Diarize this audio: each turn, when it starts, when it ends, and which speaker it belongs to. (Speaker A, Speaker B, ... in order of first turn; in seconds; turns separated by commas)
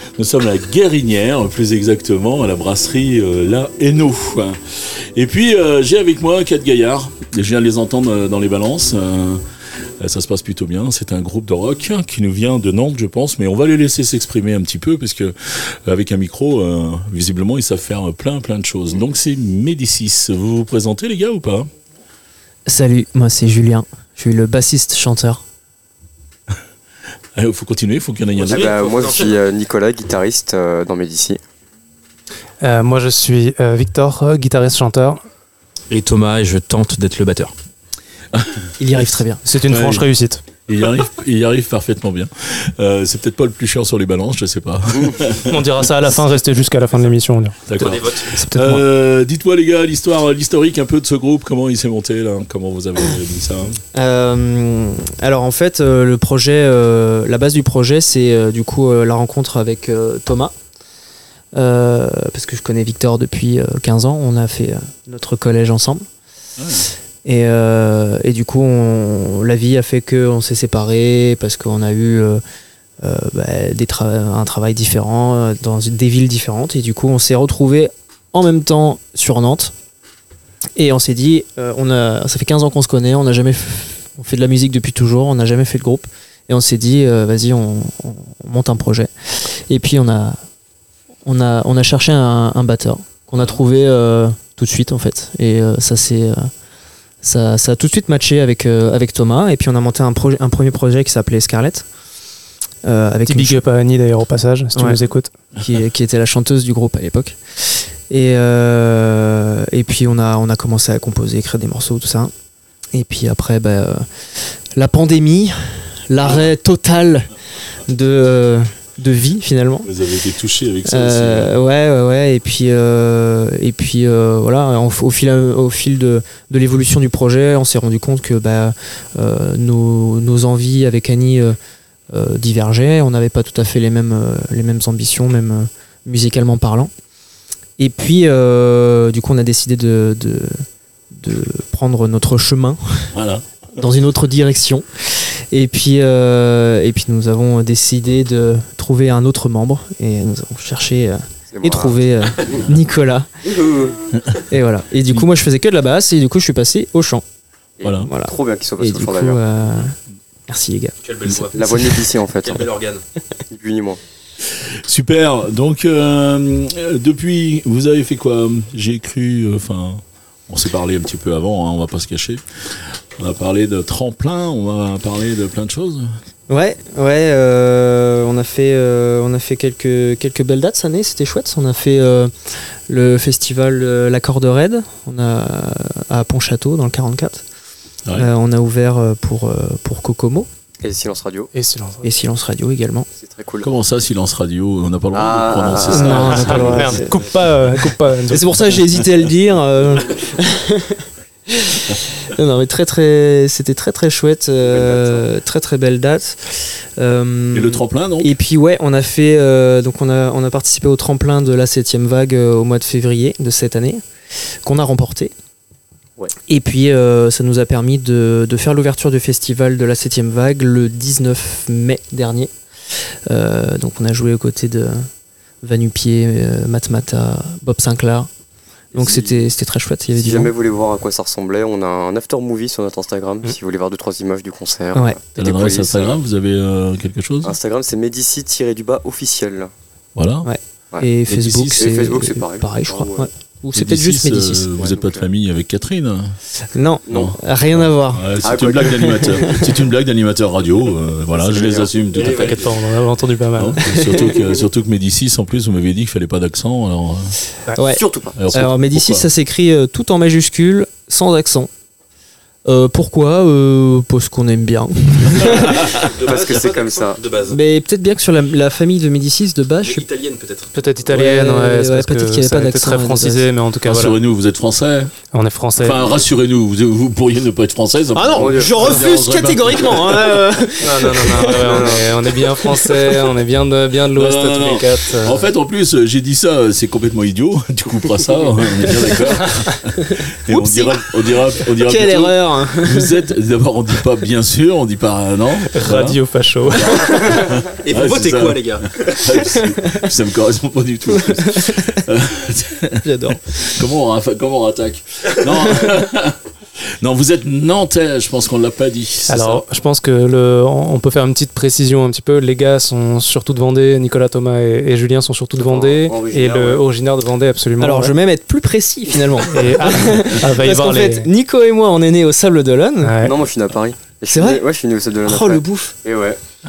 Speaker A: 0.2-4.6, Speaker A: 5.1-9.4, Speaker A: 10.0-21.7, Speaker B: 22.7-25.4, Speaker A: 27.4-28.7, Speaker C: 28.4-29.4, Speaker D: 28.5-31.4, Speaker E: 32.6-35.2, Speaker C: 35.9-37.5, Speaker A: 38.3-38.6, Speaker B: 38.8-39.4, Speaker E: 39.4-40.4, Speaker A: 39.7-40.1, Speaker A: 40.7-45.5, Speaker E: 45.5-47.9, Speaker A: 47.7-53.8, Speaker C: 47.9-48.3, Speaker B: 48.3-48.8, Speaker B: 53.9-60.5, Speaker B: 61.5-66.0, Speaker A: 66.6-66.9, Speaker B: 67.2-72.4, Speaker B: 73.0-79.7, Speaker B: 80.8-89.1, Speaker B: 89.7-90.4, Speaker B: 91.2-96.5, Speaker B: 97.2-101.9, Speaker B: 102.8-103.6, Speaker E: 103.3-105.3, Speaker B: 104.8-105.0, Speaker B: 105.6-112.3, Speaker B: 112.9-114.1, Speaker B: 114.7-117.3, Speaker B: 117.9-119.9, Speaker A: 119.8-121.5, Speaker B: 120.9-131.6, Speaker B: 132.1-136.9, Speaker B: 137.8-140.6, Speaker B: 141.1-143.1, Speaker A: 143.1-143.4, Speaker B: 143.8-153.5, Speaker D: 151.5-151.9, Speaker D: 153.5-154.0, Speaker B: 154.5-157.2, Speaker D: 157.8-159.4, Speaker A: 157.8-158.1, Speaker B: 158.0-160.0, Speaker B: 160.5-162.0, Speaker C: 161.1-161.6, Speaker D: 161.5-162.8, Speaker C: 162.4-163.0, Speaker D: 163.5-164.0, Speaker A: 164.9-172.4, Speaker A: 172.9-176.1, Speaker B: 176.5-182.3, Speaker B: 182.9-187.4, Speaker B: 188.1-190.5, Speaker D: 190.8-191.5, Speaker E: 191.5-192.1, Speaker B: 192.0-193.1, Speaker D: 193.2-193.7, Speaker A: 193.6-196.9, Speaker D: 195.1-197.1, Speaker B: 195.8-197.2, Speaker E: 195.9-198.5, Speaker B: 198.3-214.0, Speaker D: 204.6-205.3, Speaker A: 207.5-208.3, Speaker B: 214.6-215.3, Speaker B: 216.5-222.5, Speaker B: 223.3-225.1, Speaker B: 225.6-228.3, Speaker D: 228.9-229.4, Speaker B: 228.9-230.5, Speaker D: 230.2-236.2, Speaker A: 235.4-237.6, Speaker D: 237.4-239.7, Speaker A: 240.2-240.5, Speaker B: 240.4-244.7, Speaker A: 241.2-242.0, Speaker D: 241.8-243.3, Speaker A: 243.7-246.4, Speaker D: 244.8-245.3, Speaker B: 246.7-249.7, Speaker D: 247.1-247.3, Speaker A: 247.1-252.8, Speaker D: 248.4-249.7, Speaker D: 251.3-252.3, Speaker E: 252.2-254.3, Speaker A: 253.6-257.4, Speaker B: 257.8-261.7, Speaker D: 257.8-258.4, Speaker A: 258.4-259.3, Speaker B: 262.7-266.0, Speaker C: 265.5-267.6, Speaker D: 266.0-267.3, Speaker B: 267.4-270.1, Speaker C: 269.8-270.7, Speaker E: 270.7-274.2, Speaker B: 271.1-273.5, Speaker A: 273.8-275.1, Speaker E: 275.3-276.1, Speaker A: 275.8-280.4, Speaker B: 278.1-283.3, Speaker D: 278.3-279.0, Speaker E: 280.8-285.5, Speaker D: 281.6-282.4, Speaker A: 284.1-296.2, Speaker B: 290.0-293.3, Speaker E: 295.7-297.6, Speaker A: 296.7-306.4, Speaker C: 297.8-299.1, Speaker B: 301.2-302.0, Speaker B: 303.0-303.4, Speaker A: 307.0-309.6, Speaker E: 309.3-318.1, Speaker D: 315.6-316.9, Speaker B: 317.8-323.2, Speaker E: 319.5-321.3, Speaker E: 323.0-323.4, Speaker D: 323.2-326.4, Speaker B: 324.3-324.7, Speaker B: 325.2-325.9